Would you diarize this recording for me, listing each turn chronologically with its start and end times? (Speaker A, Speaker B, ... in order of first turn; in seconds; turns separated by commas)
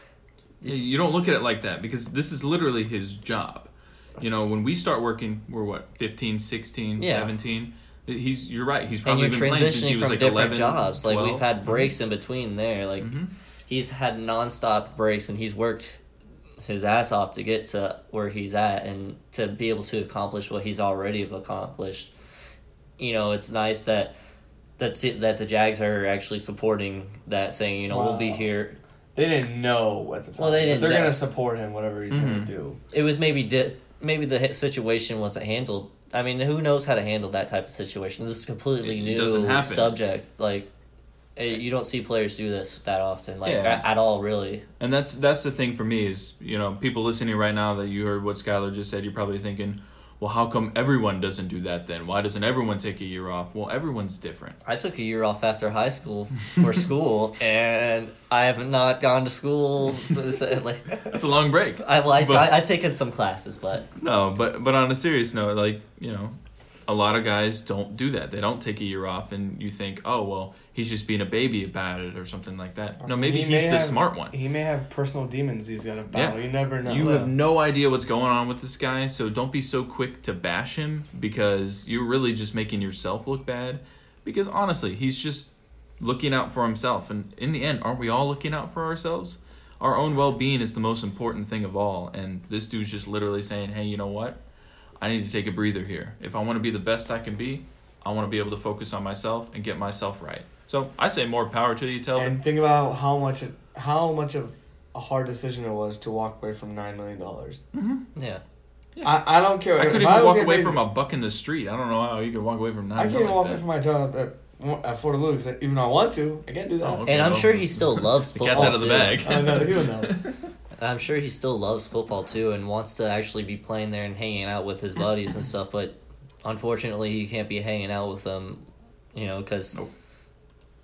Speaker A: 0.6-11.9, Speaker B: 7.0-7.3, Speaker B: 9.0-16.0, Speaker A: 13.0-13.3, Speaker B: 16.6-22.1, Speaker B: 23.0-24.1, Speaker B: 24.8-28.8, Speaker C: 27.9-28.4, Speaker C: 29.1-32.8, Speaker B: 30.4-31.2, Speaker A: 32.1-32.5, Speaker B: 32.9-40.7, Speaker A: 38.8-40.0, Speaker B: 41.4-44.6, Speaker A: 43.4-43.8, Speaker A: 44.8-54.6, Speaker B: 54.6-61.0, Speaker A: 61.0-62.6, Speaker B: 61.8-63.9, Speaker A: 64.0-66.3, Speaker A: 66.9-74.3, Speaker C: 73.0-77.3, Speaker A: 76.1-94.4, Speaker A: 95.0-102.4, Speaker C: 102.2-107.6, Speaker A: 107.7-108.0, Speaker B: 108.1-108.4, Speaker A: 109.0-113.6, Speaker C: 109.0-110.8, Speaker C: 113.0-117.1, Speaker A: 116.8-120.4, Speaker B: 117.0-119.2, Speaker C: 118.5-120.1, Speaker B: 120.8-129.8